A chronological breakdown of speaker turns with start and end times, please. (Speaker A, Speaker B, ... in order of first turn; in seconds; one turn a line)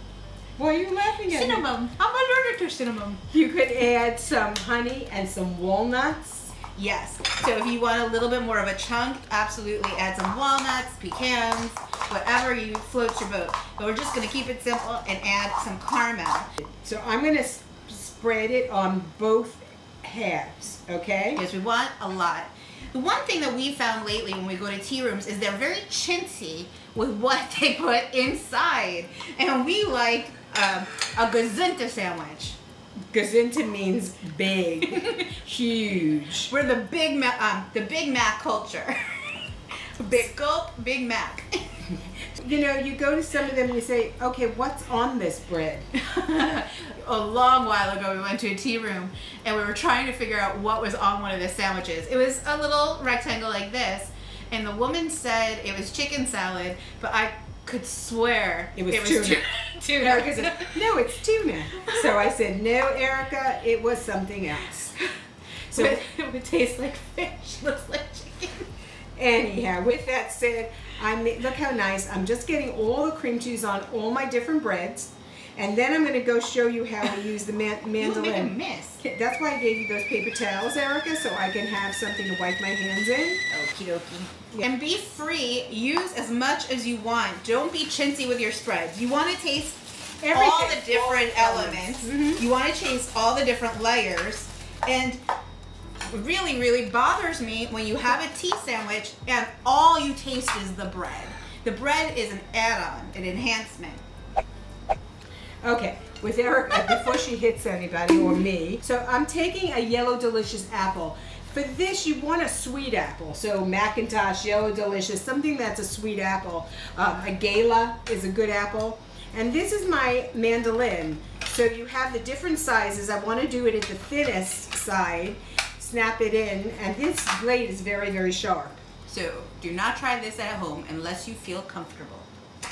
Speaker A: 0.6-1.6
Speaker B: 1.3-3.2
Speaker A: 3.3-6.5
Speaker B: 6.8-16.5
Speaker A: 16.8-21.4
Speaker B: 21.3-32.6
Speaker A: 33.1-36.5
Speaker B: 34.8-35.3
Speaker B: 36.5-39.1
Speaker B: 40.0-41.6
Speaker A: 42.2-45.8
Speaker B: 45.9-61.0
Speaker A: 58.8-59.4
Speaker A: 60.0-65.0
Speaker B: 61.8-62.3
Speaker B: 65.7-68.7
Speaker A: 65.7-66.0
Speaker A: 69.2-83.4
Speaker B: 78.0-79.0
Speaker B: 83.5-95.2
Speaker A: 90.2-92.4
Speaker B: 96.1-104.0
Speaker A: 105.6-128.8
Speaker B: 129.1-132.3